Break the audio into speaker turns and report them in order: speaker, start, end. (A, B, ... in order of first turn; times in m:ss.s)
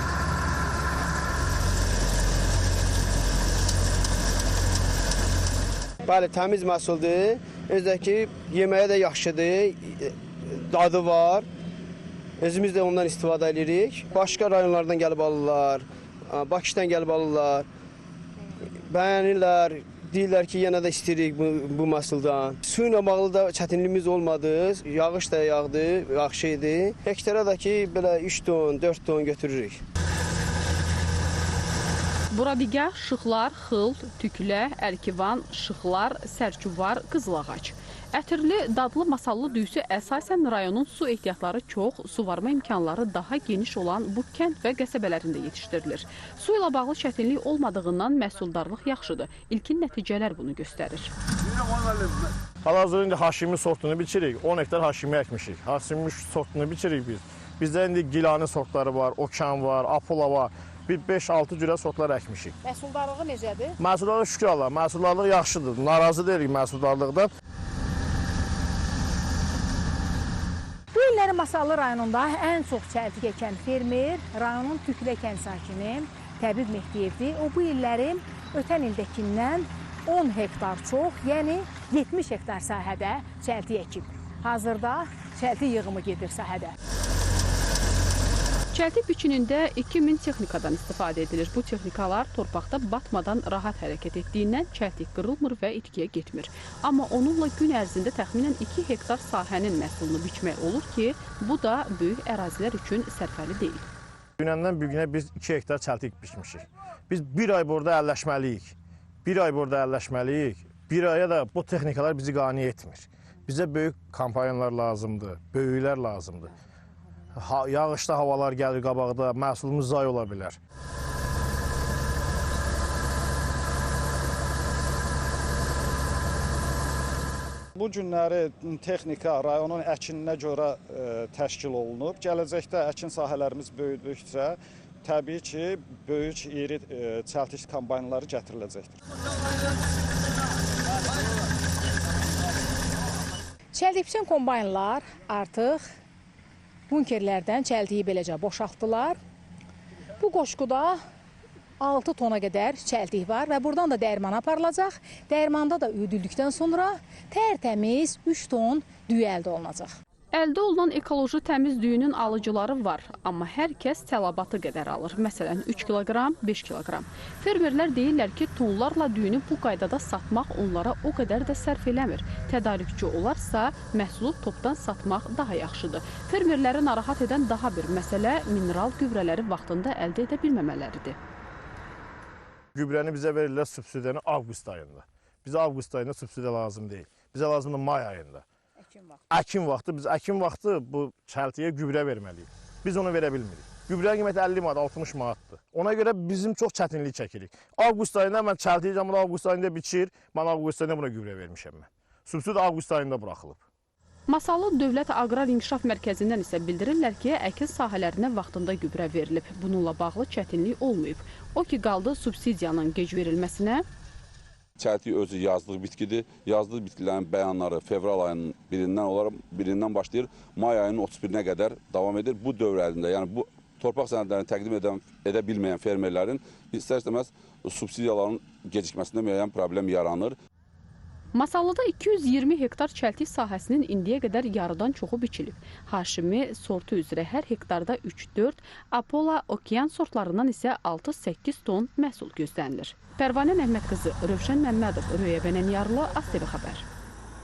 0:06.0-0:11.5 A
0:12.4-0:17.7 A
0:18.7-0:29.8 A
0:32.3-0:51.1 B
0:52.6-1:02.6 C
1:02.6-1:03.7 D
1:03.8-1:07.3 C
1:10.9-1:26.7 D
1:28.7-1:43.8 B
1:44.4-1:56.5 C
1:57.3-2:00.6 C
2:07.8-2:19.0 E
2:23.7-2:25.8 D
2:26.9-2:29.2 D
2:30.2-2:31.0 D
2:31.8-2:39.9 D
2:40.3-3:01.2 B
3:02.7-3:08.4 C
3:09.3-3:23.6 C
3:24.3-3:33.8 B
3:34.8-3:50.4 F
3:51.3-4:06.8 B